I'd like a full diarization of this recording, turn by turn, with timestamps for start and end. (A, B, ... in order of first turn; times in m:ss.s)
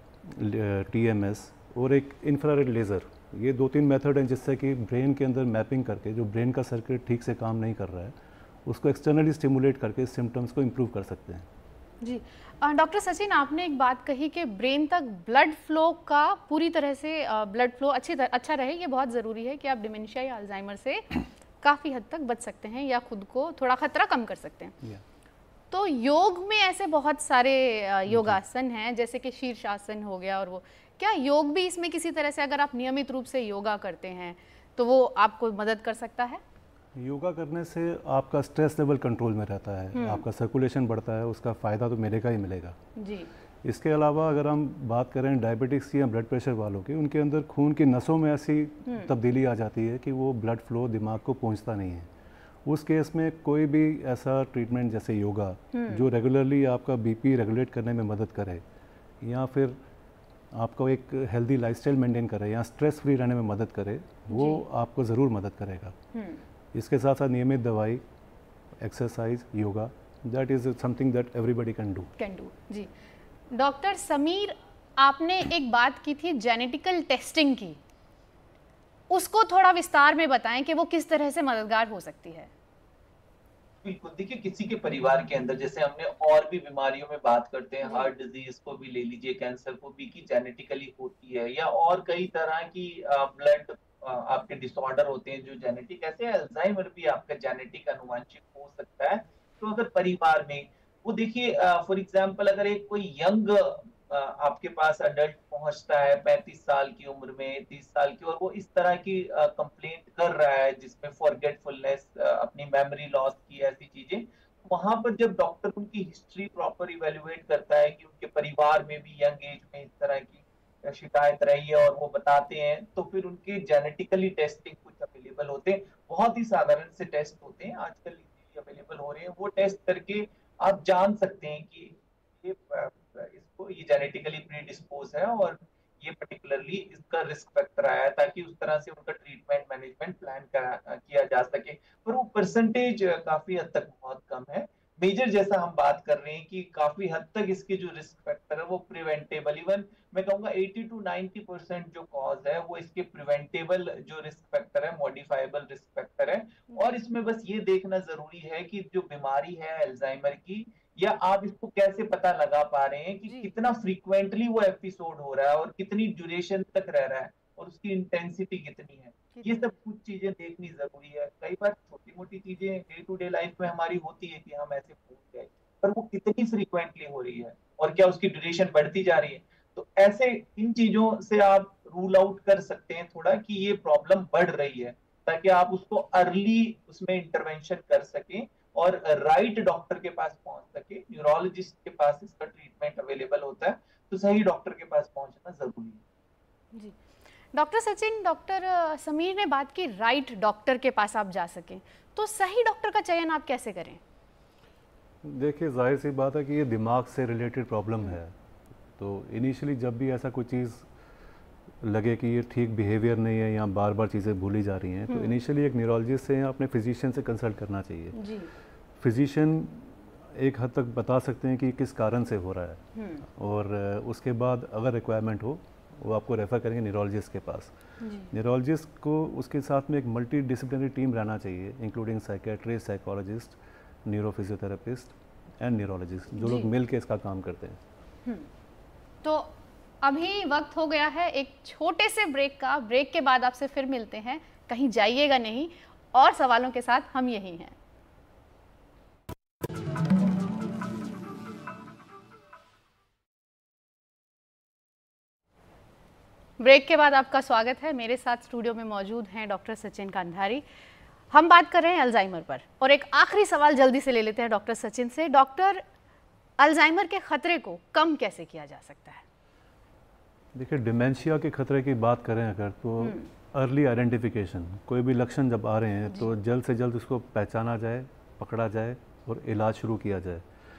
0:00.2-0:11.5 A
0:12.0-0:24.8 B
0:25.7-0:36.4 B
0:28.1-0:28.4 A
0:36.9-0:42.8 A
0:39.9-0:40.2 B
0:43.0-0:43.3 B
0:43.6-0:52.1 A
0:48.8-0:49.1 B
0:52.6-0:58.6 A
0:55.7-0:56.0 B
0:59.2-0:59.8 A
1:00.5-1:05.9 A
1:04.3-1:04.6 B
1:06.1-1:06.4 B
1:06.7-1:08.0 A
1:08.8-1:12.1 A
1:12.2-1:12.9 B
1:13.5-1:17.8 B
1:19.1-1:22.5 B
1:23.8-3:16.0 C
1:27.8-1:28.1 B
2:36.7-2:37.0 B
2:49.3-2:49.7 B
3:17.5-3:24.0 B
3:25.2-3:28.3 A
3:29.0-3:30.9 A
3:31.8-3:38.2 A
3:35.1-3:35.4 B
3:38.1-3:38.5 B
3:39.0-3:47.7 A
3:42.9-3:43.2 B
3:48.0-3:48.3 B
3:48.3-3:57.8 A
3:56.4-3:56.7 B
3:59.2-3:59.5 B
4:00.0-4:07.7 B
4:16.6-4:20.6 B
4:21.3-4:25.8 B
4:26.6-4:29.2 B
4:30.5-4:40.4 A
4:33.0-4:33.3 B
4:36.1-4:36.3 B